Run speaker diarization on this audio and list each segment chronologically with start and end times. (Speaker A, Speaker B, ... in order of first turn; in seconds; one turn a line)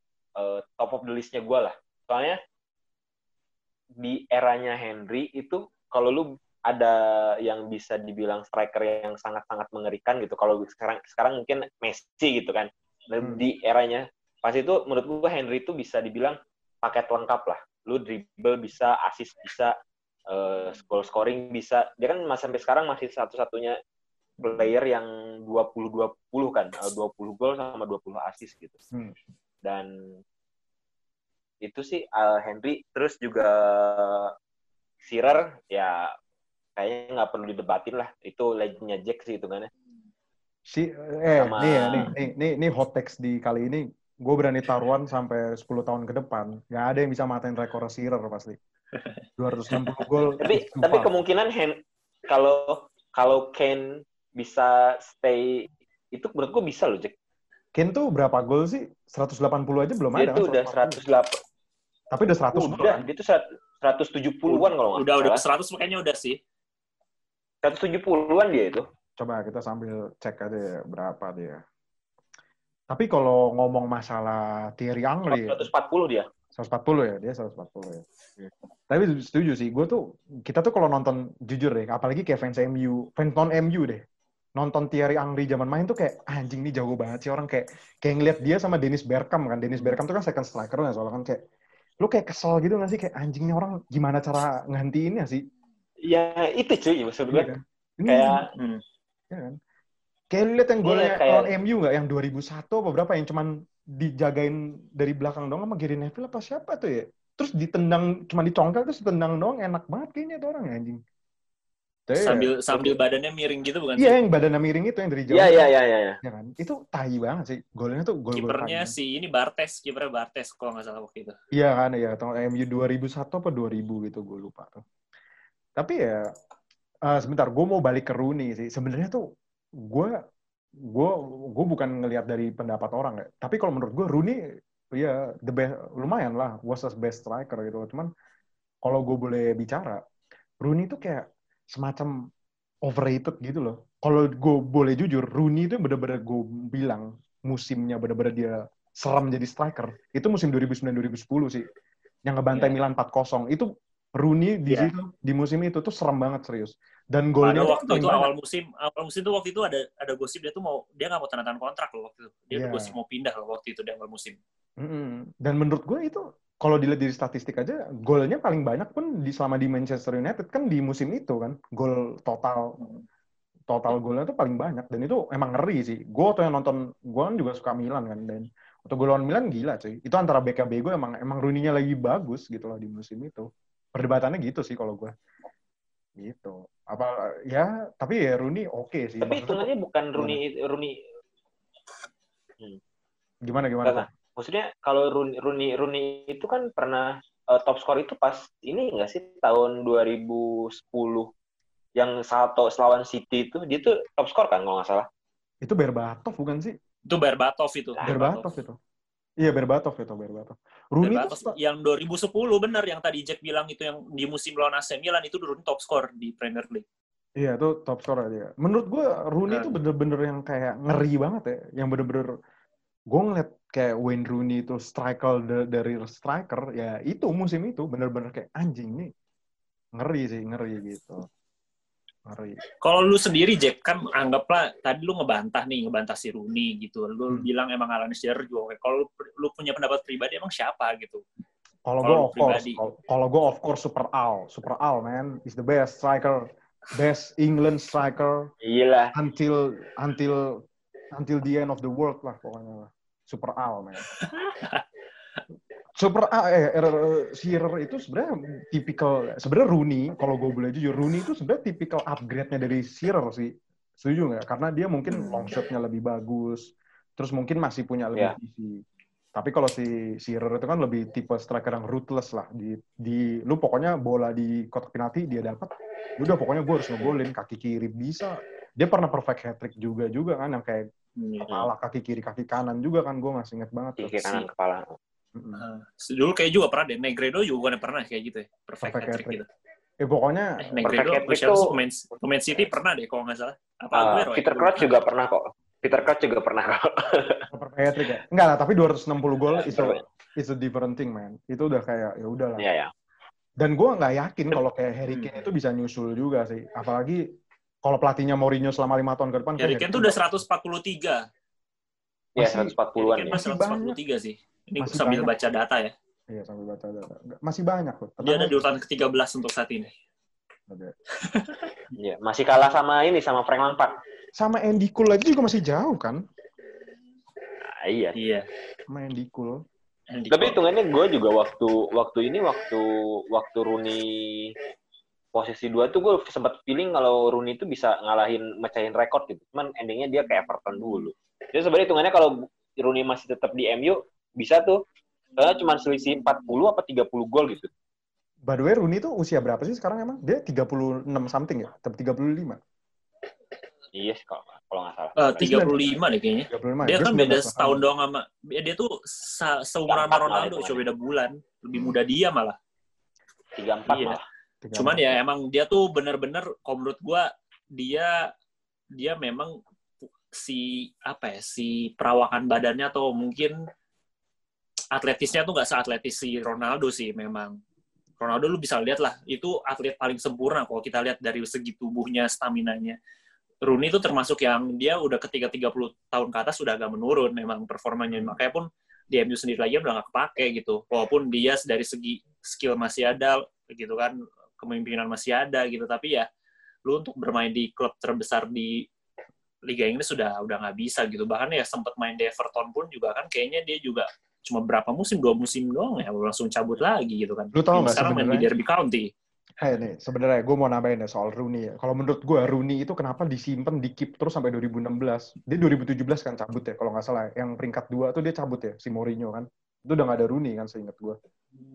Speaker A: 0.4-2.4
Speaker A: 4.0-19.7
Speaker B: 13.2-13.4
Speaker A: 20.3-23.8
Speaker A: 24.4-28.8
Speaker A: 29.6-30.2
Speaker A: 31.6-34.3
Speaker A: 35.0-36.1
Speaker A: 36.8-39.7
Speaker B: 40.7-48.6
Speaker A: 41.4-42.1
Speaker B: 49.4-51.1
Speaker A: 50.4-57.1
Speaker B: 57.8-61.0
Speaker A: 60.2-61.3
Speaker B: 62.1-63.0
Speaker A: 62.5-65.4
Speaker C: 64.5-66.4
Speaker A: 67.6-68.8
Speaker B: 69.2-71.6
Speaker B: 72.9-75.7
Speaker A: 75.3-76.3
Speaker B: 76.5-78.0
Speaker B: 78.9-84.0
Speaker B: 84.6-91.4
Speaker B: 92.0-95.4
Speaker A: 96.0-97.5
Speaker B: 97.3-98.4
Speaker A: 98.1-98.4
Speaker C: 98.5-98.8
Speaker B: 99.3-99.6
Speaker B: 100.3-111.0
Speaker A: 100.8-101.5
Speaker B: 112.1-113.0
Speaker C: 112.2-114.2
Speaker B: 114.0-115.7
Speaker A: 115.3-116.2
Speaker B: 116.2-118.9
Speaker C: 118.3-121.4
Speaker B: 121.5-124.8
Speaker B: 125.8-126.3
Speaker B: 127.1-129.2
Speaker B: 129.9-130.2
Speaker B: 130.9-134.4
Speaker B: 134.9-138.1
Speaker B: 138.8-140.0
Speaker B: 140.6-142.1
Speaker B: 142.8-151.7
Speaker B: 152.3-158.3
Speaker C: 157.4-164.4
Speaker B: 162.5-162.9
Speaker B: 164.8-172.8
Speaker B: 173.7-185.1
Speaker B: 186.2-190.4
Speaker A: 189.2-191.0
Speaker B: 193.4-194.1
Speaker A: 193.8-201.3
Speaker A: 201.9-205.1
Speaker B: 205.6-206.7
Speaker C: 207.1-208.5
Speaker B: 208.0-208.8
Speaker B: 209.4-211.6
Speaker C: 211.0-216.8
Speaker B: 217.4-222.3
Speaker C: 219.5-219.7
Speaker B: 223.1-229.1
Speaker B: 229.9-231.3
Speaker B: 232.3-232.6
Speaker C: 232.8-241.2
Speaker B: 241.8-248.5
Speaker C: 242.0-242.8
Speaker A: 248.6-249.1
Speaker B: 249.1-254.1
Speaker C: 254.1-254.8
Speaker B: 255.9-268.8
Speaker C: 265.1-265.6
Speaker B: 269.3-280.9
Speaker C: 281.2-281.7
Speaker B: 281.4-284.2
Speaker A: 284.0-285.0
Speaker B: 285.4-285.6
Speaker C: 285.6-289.5
Speaker B: 288.8-289.4
Speaker B: 290.0-290.9
Speaker C: 290.6-294.9
Speaker A: 290.8-291.7
Speaker A: 293.9-297.5
Speaker B: 297.5-302.7
Speaker A: 299.6-300.0
Speaker A: 302.6-302.9
Speaker B: 303.6-307.2
Speaker B: 307.8-310.2
Speaker C: 309.6-311.2
Speaker A: 312.4-313.4
Speaker B: 312.4-312.7
Speaker C: 313.0-315.9
Speaker B: 313.3-314.0
Speaker B: 314.8-315.3
Speaker B: 316.3-318.6
Speaker C: 318.2-319.9
Speaker C: 321.2-321.7
Speaker A: 321.9-323.9
Speaker B: 324.4-326.2
Speaker A: 327.7-328.2
Speaker C: 328.2-328.4
Speaker B: 328.9-329.6
Speaker C: 330.1-330.6
Speaker A: 330.3-334.5
Speaker A: 335.3-344.8
Speaker A: 345.4-347.7
Speaker B: 348.5-352.6
Speaker A: 353.9-355.8
Speaker C: 355.2-362.6
Speaker B: 355.4-355.9
Speaker B: 356.5-357.9
Speaker A: 359.9-360.8
Speaker A: 363.6-364.2
Speaker C: 363.9-364.2
Speaker B: 364.6-365.2
Speaker C: 364.8-368.3
Speaker C: 368.9-369.5
Speaker C: 370.3-373.6
Speaker C: 374.9-377.6
Speaker C: 378.2-383.0
Speaker C: 383.6-396.3
Speaker B: 388.1-388.4
Speaker C: 396.9-398.8
Speaker C: 399.7-409.1
Speaker B: 407.5-408.5
Speaker B: 409.6-421.2